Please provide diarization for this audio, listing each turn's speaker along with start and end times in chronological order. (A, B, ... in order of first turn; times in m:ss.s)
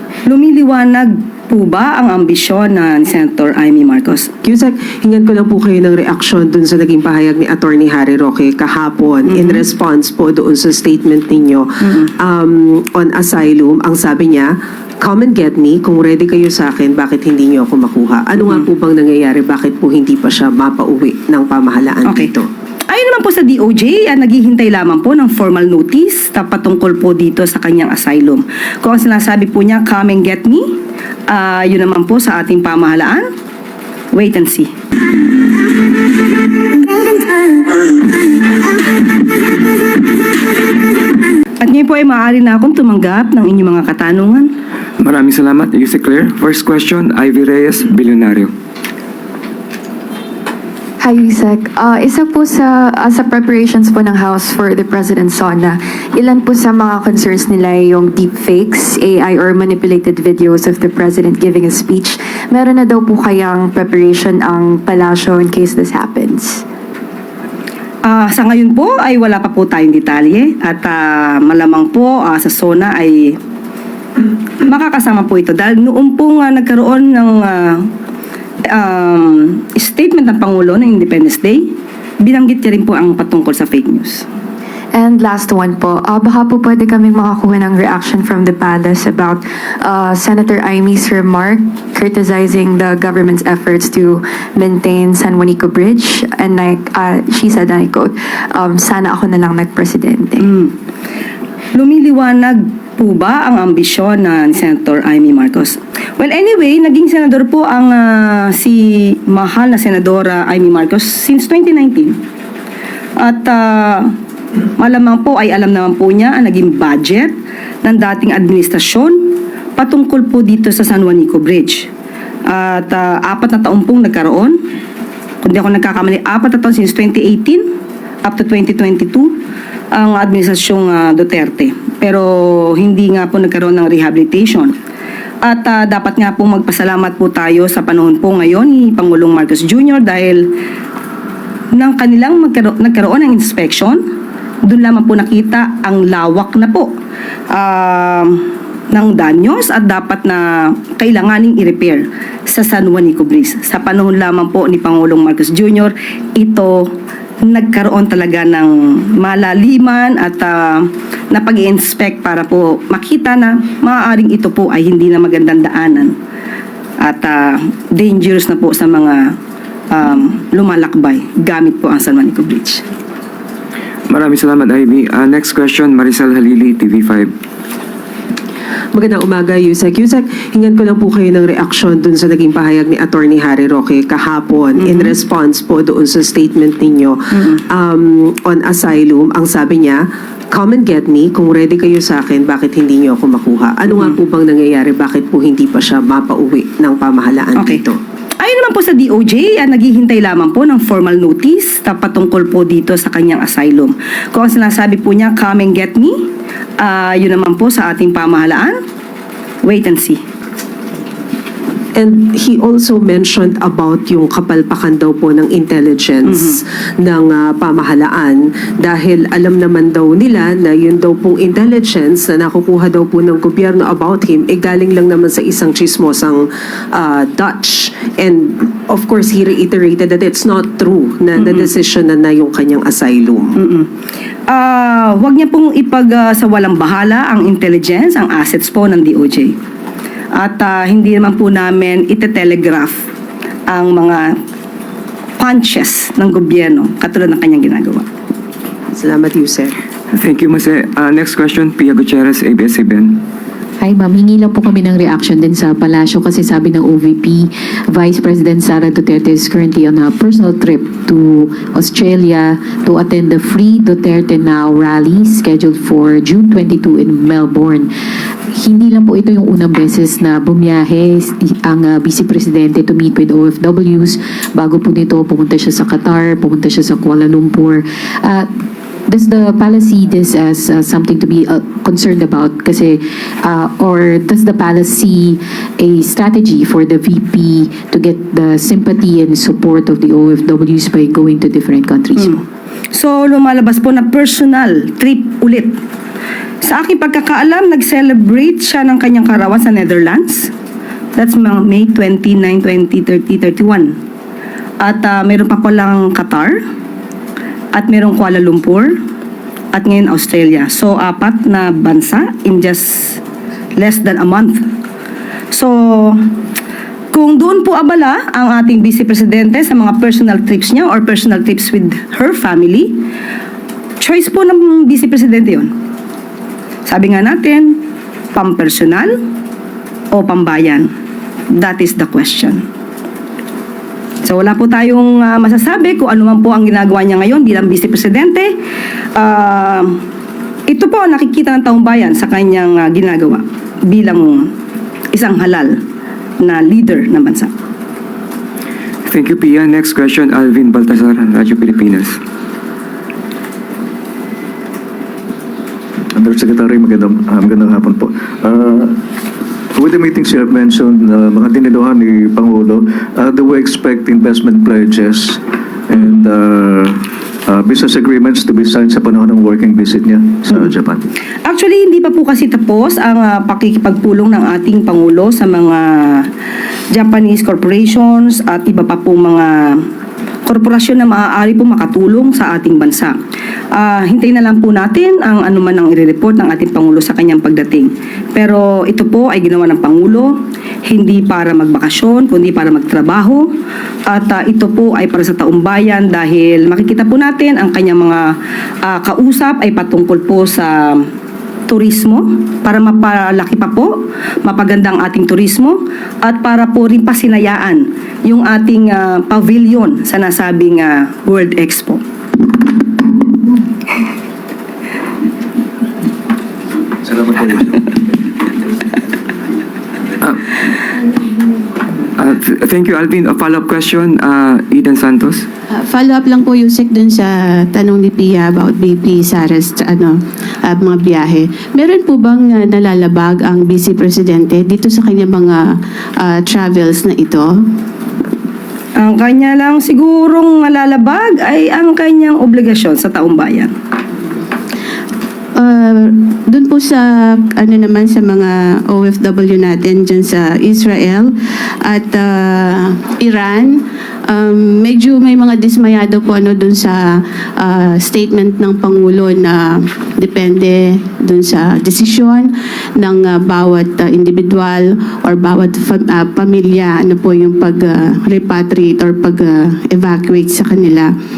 0:00.3-0:04.3 A
0:04.6-0:11.6 B
0:09.3-0:09.6 A
0:12.4-0:14.4 B
0:15.1-0:22.3 B
0:22.0-0:22.3 A
0:22.9-0:30.7 A
0:31.3-0:33.2 A
0:34.1-0:34.7 A
0:41.6-0:44.5 A
0:45.0-0:48.5 C
0:51.0-1:06.6 D
1:08.0-1:13.4 A
1:14.6-1:17.8 A
1:18.7-1:21.7 A
1:22.2-1:24.2 A
1:24.9-1:40.5 D
1:40.4-1:40.7 A
1:41.7-1:52.2 A
1:53.2-1:54.1 A
1:54.8-1:59.2 A
1:59.8-2:01.9 A
2:02.5-2:04.6 A
2:05.4-2:07.6 A
2:08.2-2:09.3 A
2:09.9-2:14.7 A
2:15.4-2:20.5 A
2:21.8-2:24.0 A
2:24.7-2:26.9 A
2:27.5-2:28.4 A
2:28.9-2:36.9 A
2:37.5-2:46.1 A
2:47.0-2:49.2 A
2:49.9-2:52.8 A
2:54.1-2:57.3 C
2:59.1-3:00.2 B
3:00.7-3:07.1 B
3:04.8-3:05.1 A
3:08.0-3:09.9 B
3:10.6-3:17.8 B
3:17.6-3:17.8 A
3:18.4-3:26.2 A
3:26.8-3:28.7 A
3:29.6-3:30.2 A
3:32.0-3:36.2 B
3:37.0-3:46.4 B
3:47.0-3:47.7 B
3:48.9-3:53.4 B
3:53.6-3:53.8 A
3:54.5-3:59.5 A
4:00.3-4:03.0 A
4:03.7-4:04.3 A
4:05.4-4:08.0 A
4:09.0-4:09.6 B
4:10.1-4:13.2 C
4:13.8-4:27.9 E
4:28.5-4:38.5 E
4:39.1-4:52.4 E
4:52.9-4:55.7 A
4:56.6-5:00.5 A
5:01.2-5:03.9 A
5:04.8-5:06.6 A
5:07.8-5:08.9 A
5:09.7-5:13.2 A
5:13.8-5:14.6 A
5:15.5-5:16.2 A
5:17.1-5:23.0 A
5:24.0-5:25.7 A
5:26.9-5:27.8 A
5:28.3-5:29.1 A
5:30.1-5:30.9 A
5:31.6-5:32.6 A
5:34.2-5:38.5 A
5:39.2-5:40.0 A
5:40.7-5:44.5 A
5:45.1-5:45.8 A
5:46.4-5:47.5 A
5:49.1-5:52.2 C
5:56.1-5:58.9 F
5:59.7-6:11.0 F
6:11.4-6:16.3 A
6:16.9-6:19.8 A
6:20.5-6:23.1 A
6:23.8-6:30.3 A
6:30.8-6:33.5 A
6:34.1-6:38.3 A
6:38.8-6:41.0 A
6:41.7-6:52.0 A
6:57.1-6:57.9 F
7:02.2-7:05.4 C
7:05.7-7:17.5 G
7:19.0-7:23.7 A
7:25.6-7:31.3 G
7:31.8-7:51.1 G